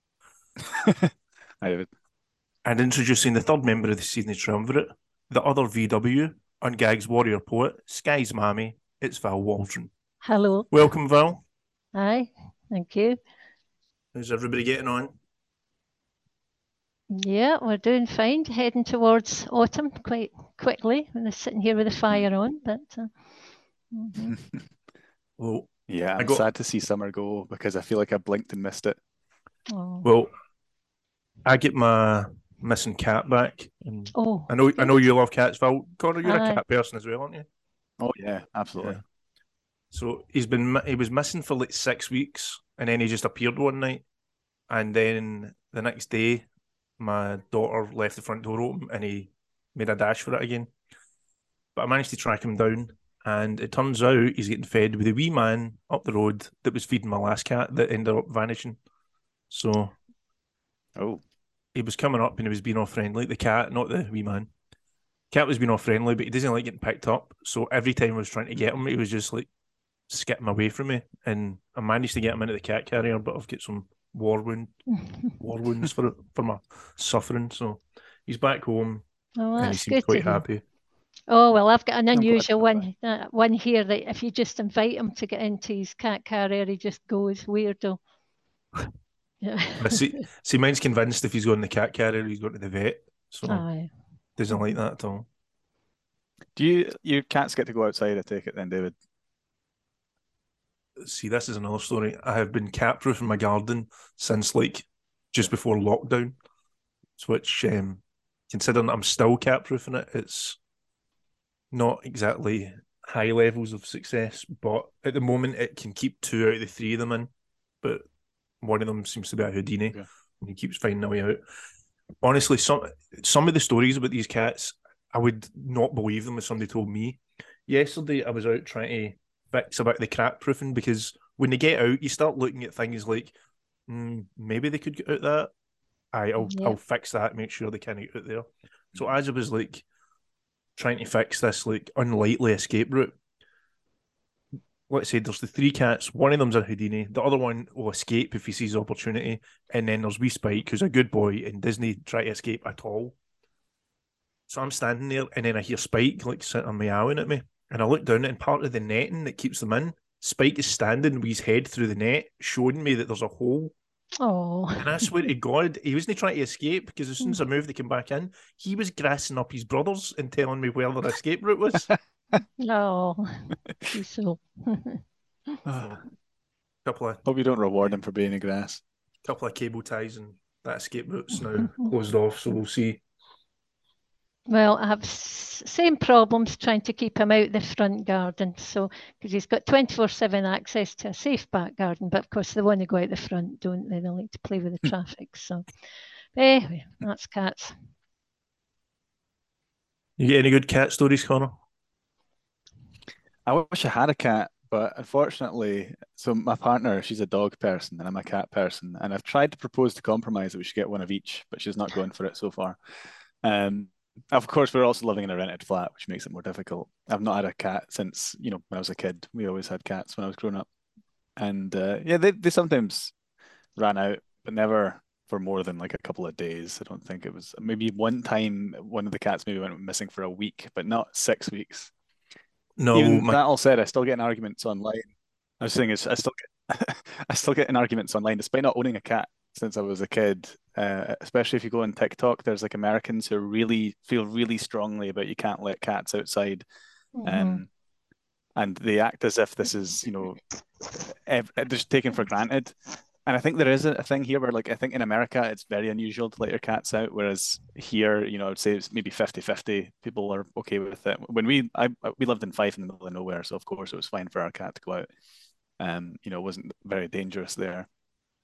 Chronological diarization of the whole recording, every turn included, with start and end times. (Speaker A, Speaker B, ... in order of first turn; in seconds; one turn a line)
Speaker A: 0.6-1.9
Speaker B: 2.6-9.9
Speaker C: 10.2-10.8
Speaker B: 10.7-11.4
Speaker C: 11.9-13.2
Speaker B: 14.1-15.1
Speaker C: 17.1-23.1
Speaker C: 23.9-24.4
Speaker A: 24.2-24.6
Speaker B: 25.4-26.4
Speaker A: 25.9-29.0
Speaker C: 29.7-30.1
Speaker B: 30.0-30.3
Speaker B: 31.4-37.5
Speaker C: 34.1-35.0
Speaker C: 36.2-36.6
Speaker A: 38.0-39.0
Speaker B: 38.8-39.0
Speaker B: 39.9-44.0
Speaker B: 44.7-46.5
Speaker B: 47.0-50.7
Speaker B: 51.8-58.8
Speaker B: 59.5-60.0
Speaker A: 61.0-61.2
Speaker B: 61.7-64.5
Speaker B: 65.3-69.5
Speaker B: 70.1-74.7
Speaker C: 74.9-75.3
Speaker B: 75.4-79.0
Speaker C: 79.4-80.4
Speaker B: 79.6-80.6
Speaker C: 81.3-88.0
Speaker A: 82.1-82.9
Speaker C: 89.4-90.1
Speaker B: 89.8-93.7
Speaker C: 93.5-93.9
Speaker B: 94.4-95.3
Speaker A: 96.6-99.0
Speaker B: 101.0-106.3
Speaker B: 107.2-110.6
Speaker B: 111.7-117.3
Speaker B: 118.6-121.4
Speaker B: 122.2-133.3
Speaker B: 133.9-135.5
Speaker B: 136.1-139.8
Speaker C: 136.4-136.8
Speaker B: 140.8-143.2
Speaker B: 144.9-153.2
Speaker B: 154.5-163.7
Speaker C: 164.2-165.3
Speaker B: 164.8-171.9
Speaker C: 172.6-175.6
Speaker A: 175.7-175.9
Speaker B: 175.7-176.0
Speaker B: 176.8-177.2
Speaker A: 177.2-178.8
Speaker B: 179.2-183.0
Speaker C: 181.6-181.9
Speaker C: 184.5-195.7
Speaker C: 196.3-197.8
Speaker B: 200.2-201.6
Speaker A: 203.5-212.8
Speaker A: 213.4-220.7
Speaker A: 221.4-223.1
Speaker A: 223.8-231.9
Speaker B: 232.8-233.4
Speaker A: 232.9-235.1
Speaker A: 235.6-246.7
Speaker C: 247.2-247.6
Speaker A: 247.2-247.7
Speaker A: 248.6-265.1
Speaker A: 265.8-267.9